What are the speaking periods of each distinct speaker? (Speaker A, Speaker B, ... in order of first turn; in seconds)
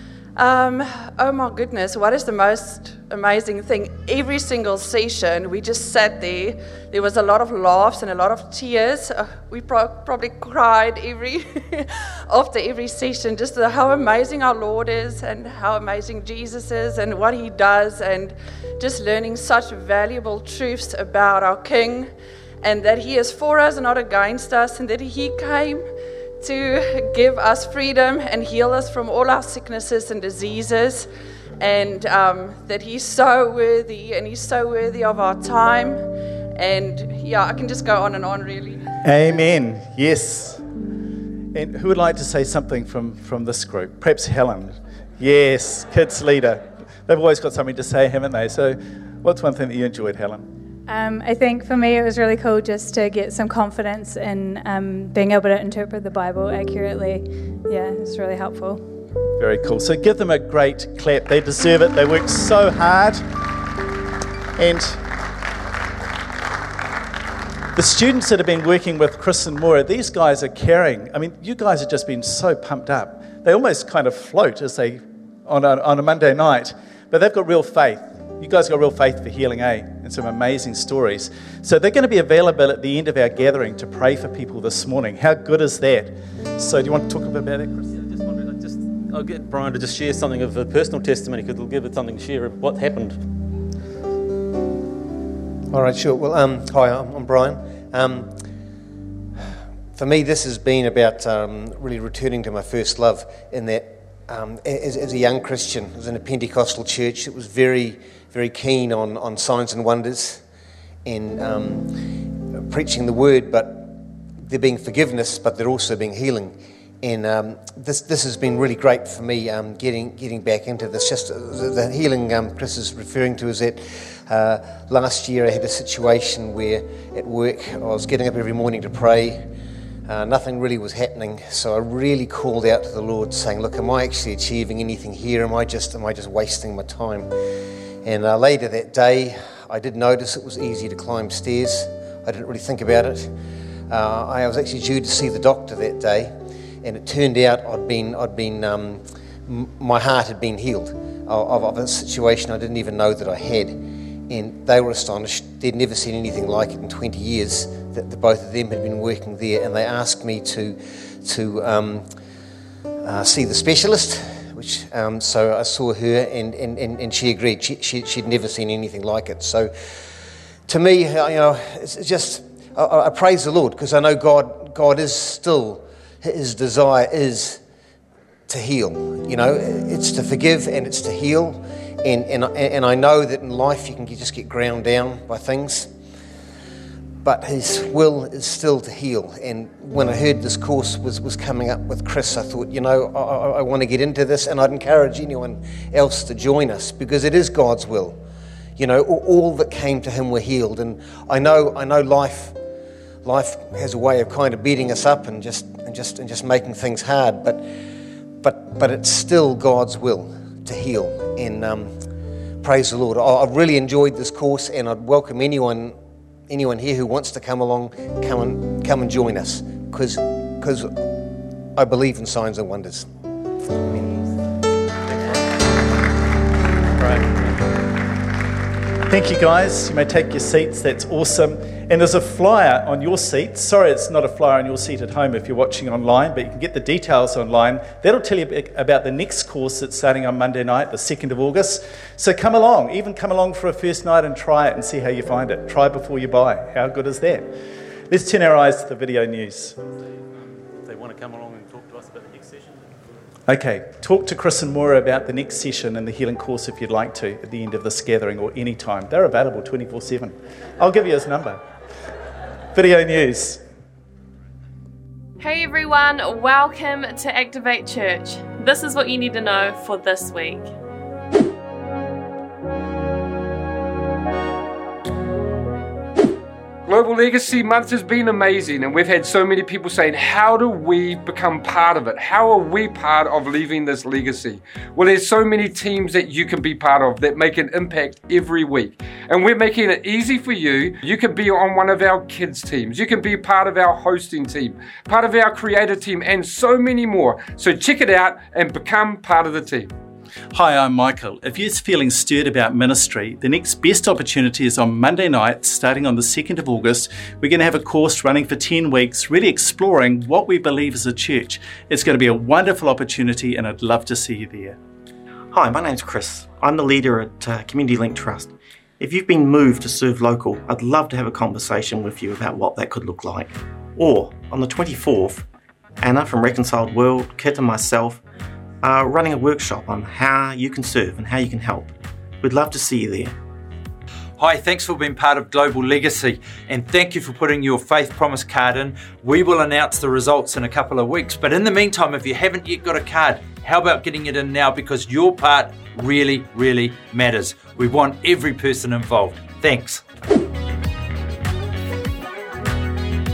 Speaker A: 0.4-22.1, 22.6-25.9, 26.4-38.8
Speaker B: 39.0-40.6, 41.5-50.5, 59.4-63.2, 64.6-65.0, 67.8-87.8, 229.1-247.5, 248.1-249.8, 253.5-261.6, 262.7-263.6, 300.5-314.8
Speaker C: 50.9-58.8
Speaker D: 87.8-93.2, 227.0-227.3, 250.8-252.9
Speaker E: 95.7-98.3, 100.0-110.4, 111.0-113.9, 114.4-129.5, 130.1-137.3, 138.0-143.3, 143.9-162.0, 163.0-169.7, 170.7-177.6, 178.5-185.9, 187.2-198.2, 198.8-202.6, 203.2-207.7, 208.4-212.0, 212.6-216.0, 216.5-221.1, 221.8-223.1
Speaker F: 265.4-270.7
Speaker G: 276.8-299.9
Speaker H: 315.5-325.4, 326.0-328.2, 328.8-333.3
Speaker I: 334.4-350.0